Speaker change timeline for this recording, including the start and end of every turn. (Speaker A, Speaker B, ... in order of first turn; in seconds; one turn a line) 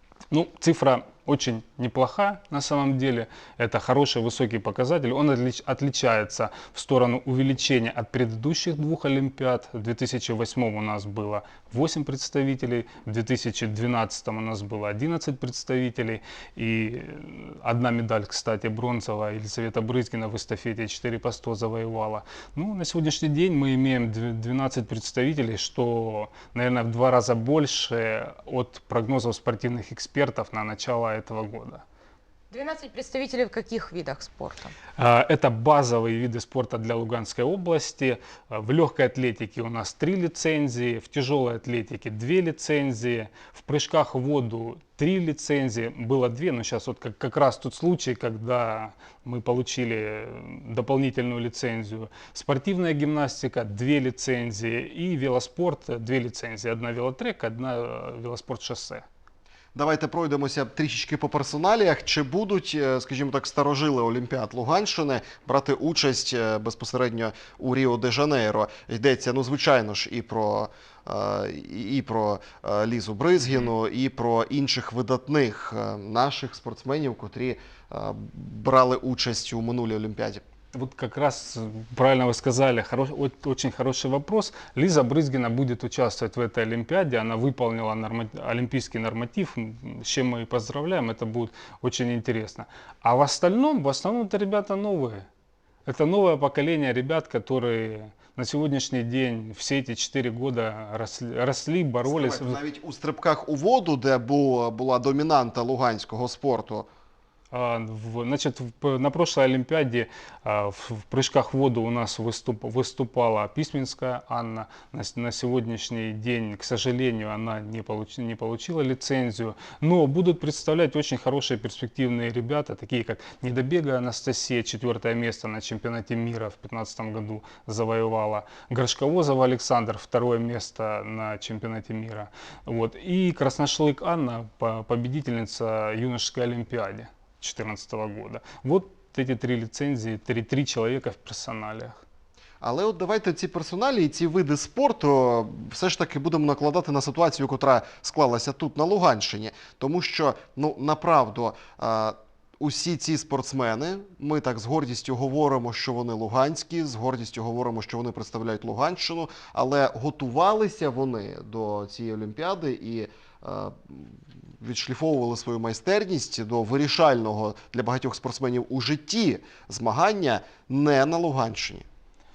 Speaker A: 0.3-31.8
Speaker B: 32.5-34.7
Speaker A: 35.0-59.0
Speaker C: 59.7-80.4
Speaker A: 80.7-95.3
Speaker A: 95.8-102.6
Speaker C: 102.0-106.9
Speaker A: 107.5-142.0
Speaker C: 142.6-171.8